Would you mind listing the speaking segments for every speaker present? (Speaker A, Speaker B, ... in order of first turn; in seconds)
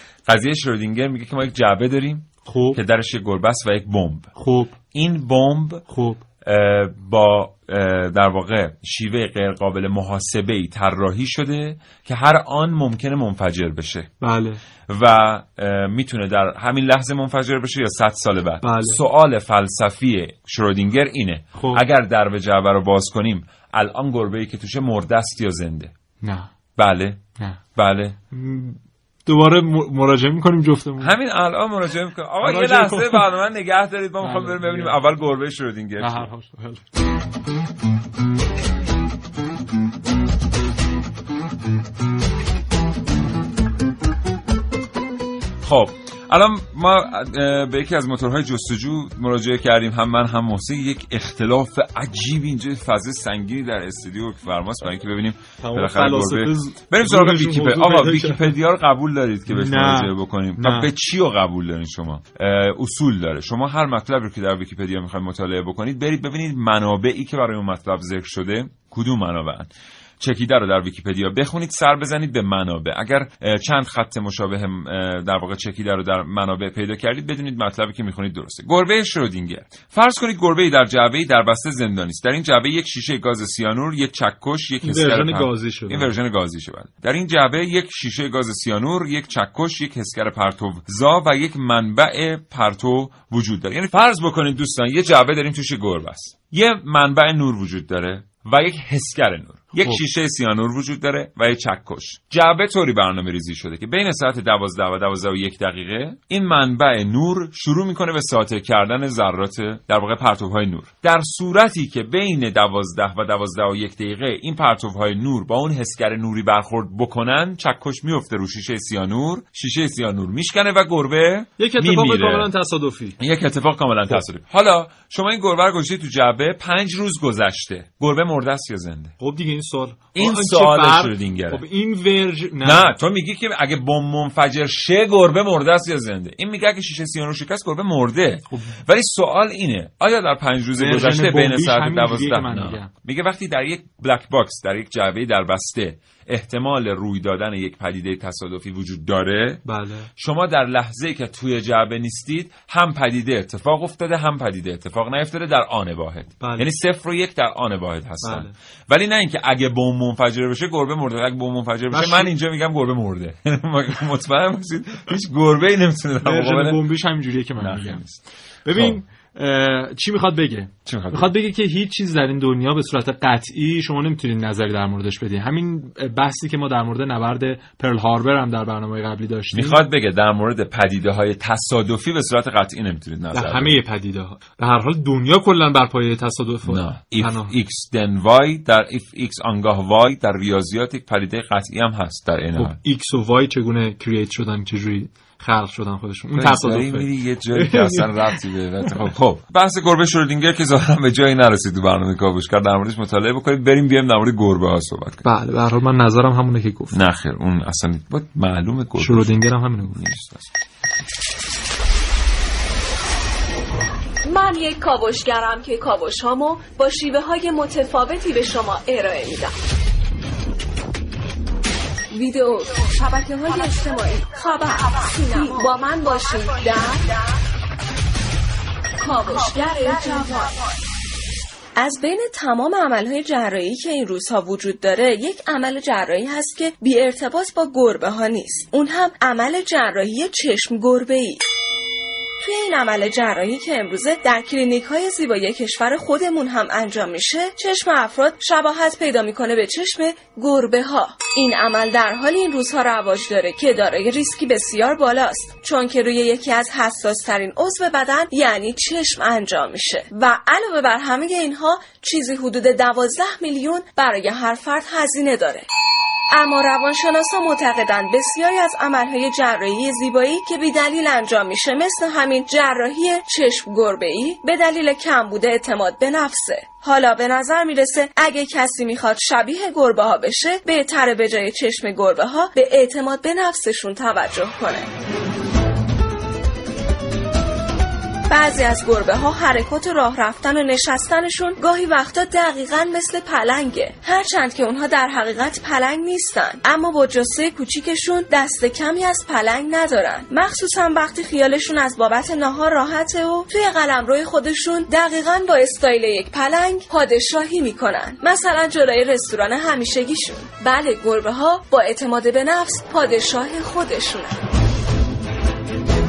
Speaker A: 0.3-4.3, 4.9-5.8, 6.4-14.1, 14.9-25.9, 26.8-28.2, 31.0-36.2, 45.6-69.7, 70.2-122.5, 123.2-129.1, 130.1-131.6, 132.6-149.6, 150.2-166.8, 167.6-169.0, 170.8-171.3, 179.5-183.8, 186.7-192.8, 196.4-205.2, 206.9-210.5
Speaker B: 2.5-2.8, 4.3-4.8, 5.9-6.2, 14.2-14.6, 18.6-19.0, 21.5-21.8, 26.2-26.5, 28.3-31.1, 32.4-33.2, 34.2-35.0, 36.0-36.9, 55.6-58.5, 59.5-60.9, 84.8-86.1, 121.6-123.2, 129.2-132.9, 138.5-138.8, 140.8-142.9, 149.7-150.1, 156.4-156.7, 158.2-158.5, 161.9-162.3, 166.2-168.0, 168.6-179.8, 183.3-187.5, 192.6-199.0, 205.2-207.0, 209.0-210.0
Speaker C: 214.2-219.5, 222.1-227.2, 229.0-230.7, 231.8-241.4, 242.4-265.7, 266.3-284.9, 288.3-314.4